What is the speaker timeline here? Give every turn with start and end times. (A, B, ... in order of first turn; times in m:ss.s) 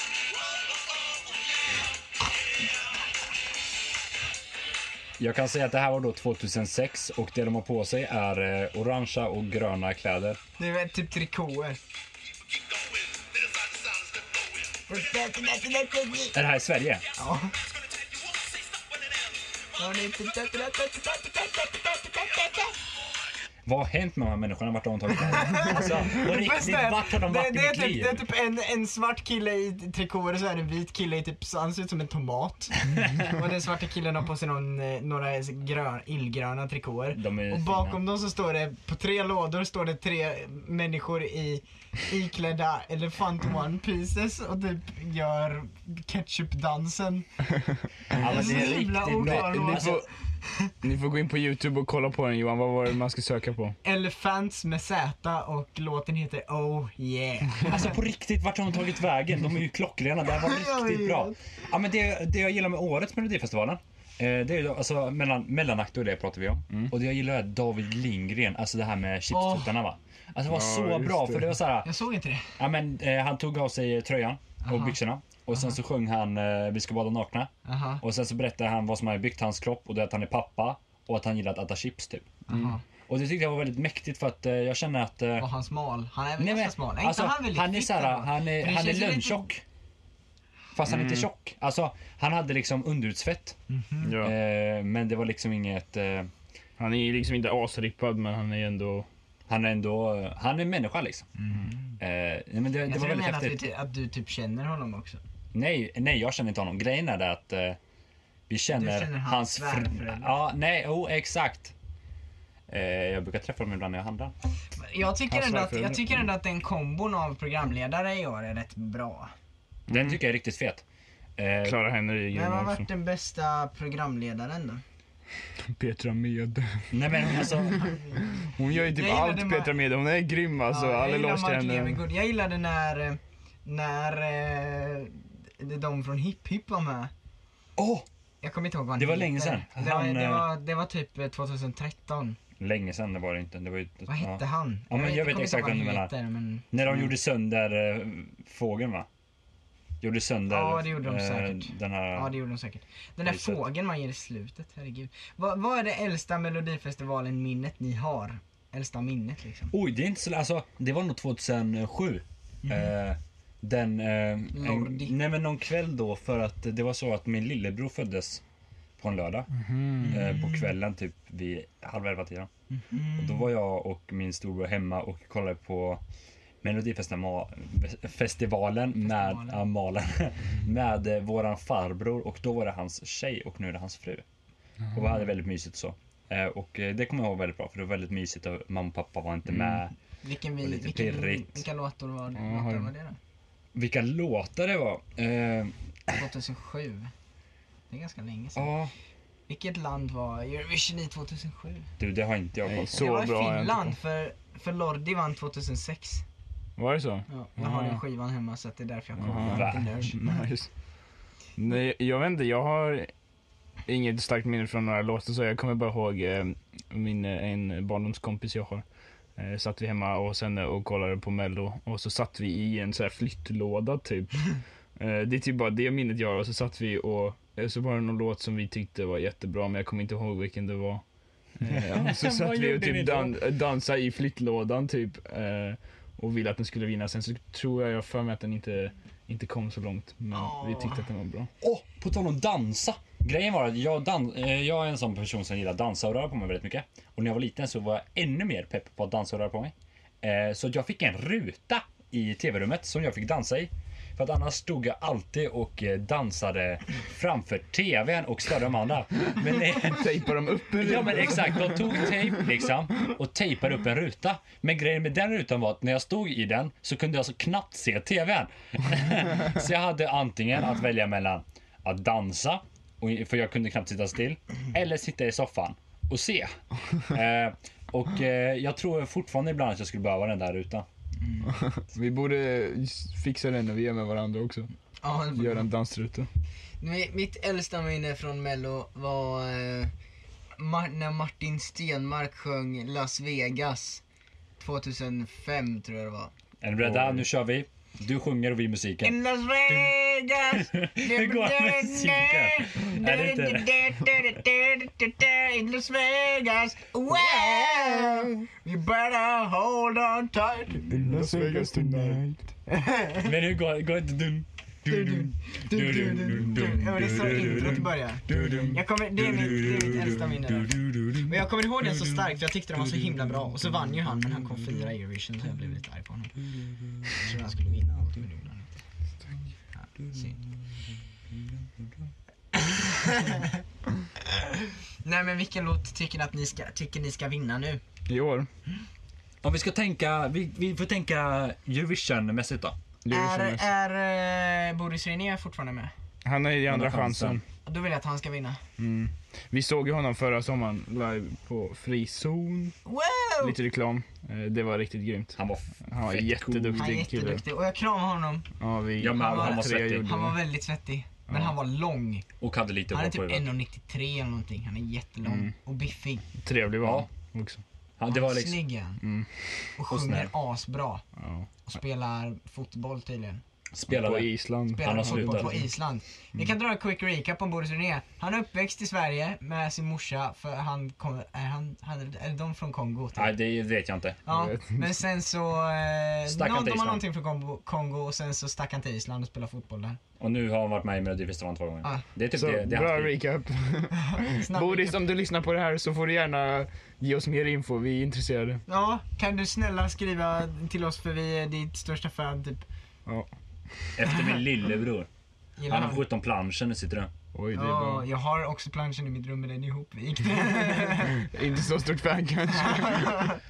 0:05.2-0:10.4 A
0:10.6-0:11.8 B
0:14.9-0:16.4 B
0:16.3-0:17.0 A
0:17.2-0:17.5 B
0:19.8-0:22.8 B
0:23.7-0:28.2 A
0:25.2-0:47.3 B
0:37.2-0:38.0 A
0:48.1-0:50.0 A
0:48.2-0:50.1 C
0:48.2-0:50.7 B
0:50.7-0:53.8 C
0:53.8-0:58.0 B
0:57.6-1:11.9 A
1:00.4-1:01.4 B
1:09.3-1:09.7 B
1:10.5-1:11.6 C
1:11.8-1:12.6 B
1:12.6-1:17.5 A
1:14.6-1:15.0 B
1:17.6-1:18.0 B
1:18.0-1:22.4 A
1:22.5-1:22.8 B
1:23.1-1:25.5 A
1:25.4-1:29.4 B
1:26.4-1:29.6 A
1:30.7-1:33.6 A
1:30.8-1:31.3 C
1:33.7-1:34.2 B
1:34.0-1:34.3 C
1:34.2-1:36.3 A
1:36.8-1:39.1 C
1:39.5-1:41.3 A
1:41.4-1:41.9 B
1:42.0-1:43.6 A
1:42.9-1:45.2 B
1:45.5-1:47.8 A
1:48.5-1:51.7 A
1:48.7-1:50.3 B
1:52.7-1:54.3 A
1:54.8-1:59.3 B
1:55.3-1:56.2 C
1:59.9-2:00.8 A
2:01.4-2:01.8 A
2:01.6-2:02.9 C
2:02.3-2:04.8 B
2:05.6-2:12.0 C
2:06.9-2:07.9 A
2:07.8-2:09.7 B
2:10.7-2:17.1 B
2:17.8-2:18.1 A
2:18.4-2:22.4 B
2:19.0-2:20.5 A
2:22.6-2:26.1 A
2:24.1-2:26.7 B
2:26.7-2:29.1 A
2:30.0-2:32.3 A
2:30.5-2:39.7 B
2:33.2-2:33.6 A
2:39.7-2:48.4 A
2:42.6-2:42.9 B
2:44.5-2:45.1 B
2:49.0-2:49.5 A
2:49.5-2:50.2 C
2:50.0-2:50.7 B
2:50.0-2:52.5 A
2:52.7-2:53.4 B
2:53.2-2:56.0 A
2:56.6-3:04.2 A
2:59.0-2:59.6 B
3:04.9-3:10.0 A
3:10.2-3:13.2 B
3:10.6-3:11.6 A
3:12.4-3:12.9 C
3:13.8-3:16.2 A
3:16.1-3:17.1 B
3:17.9-3:18.7 B
3:18.6-3:18.9 A
3:19.5-3:21.9 B
3:22.0-3:23.1 A
3:22.7-3:24.0 C
3:22.9-3:26.2 B
3:26.8-3:28.0 C
3:27.3-3:30.5 B
3:29.2-3:30.7 C
3:29.4-3:29.9 A
3:31.6-3:33.1 C
3:33.9-3:38.8 C
3:39.4-3:51.0 C
3:51.6-4:01.5 C
3:51.7-3:53.4 A
4:00.3-4:01.0 B
4:01.6-4:36.5 A
4:19.8-4:22.2 C
4:37.0-4:40.9 A
4:41.2-4:41.5 B
4:41.4-4:44.7 C
4:45.0-4:45.7 B
4:45.3-4:46.3 C
4:46.8-4:49.9 B
4:50.6-4:54.0 B
4:54.6-4:56.3 B
4:56.6-4:59.1 A
4:56.8-4:57.2 C
4:59.0-5:12.1 B
4:59.7-5:03.7 A
5:10.9-5:12.4 C
5:12.7-5:13.3 B
5:13.2-5:22.4 A
5:14.9-5:26.4 B
5:18.3-5:18.8 C
5:27.1-5:28.7 B
5:30.1-5:30.4 B
5:32.5-5:33.6 B
5:34.2-5:37.8 B
5:38.1-5:38.5 C
5:39.4-5:42.8 A
5:43.0-5:43.7 C
5:43.1-5:45.9 B
5:46.2-5:47.4 C
5:46.7-5:47.4 A
5:47.6-5:48.6 B
5:48.8-5:52.8 C
5:52.9-5:53.6 B
5:53.4-5:57.4 C
5:55.4-5:56.9 A
5:56.8-5:58.5 B
5:58.6-6:00.4 C
5:59.0-6:00.1 A
5:59.1-6:02.2 B
6:02.4-6:03.5 A
6:02.9-6:06.2 B
6:05.2-6:05.5 C
6:06.4-6:07.6 C
6:06.8-6:07.1 A
6:08.0-6:08.6 A
6:08.1-6:09.0 B
6:09.0-6:09.7 C
6:09.8-6:11.0 B
6:09.9-6:10.3 A
6:11.2-6:11.5 C
6:11.6-6:13.4 B
6:13.7-6:15.6 A
6:13.9-6:15.7 C
6:14.8-6:23.4 B
6:23.2-6:24.2 A
6:24.3-6:30.0 B
6:24.3-6:25.0 C
6:26.3-6:27.0 A
6:30.2-6:33.1 A
6:32.3-6:38.6 C
6:34.1-6:35.0 B
6:38.7-6:42.7 B
6:43.1-6:44.0 C
6:44.0-6:45.1 A
6:45.6-6:46.0 B
6:45.7-6:47.1 A
6:47.3-6:48.1 C
6:47.6-6:51.3 B
6:51.2-6:53.2 C
6:52.6-6:53.4 B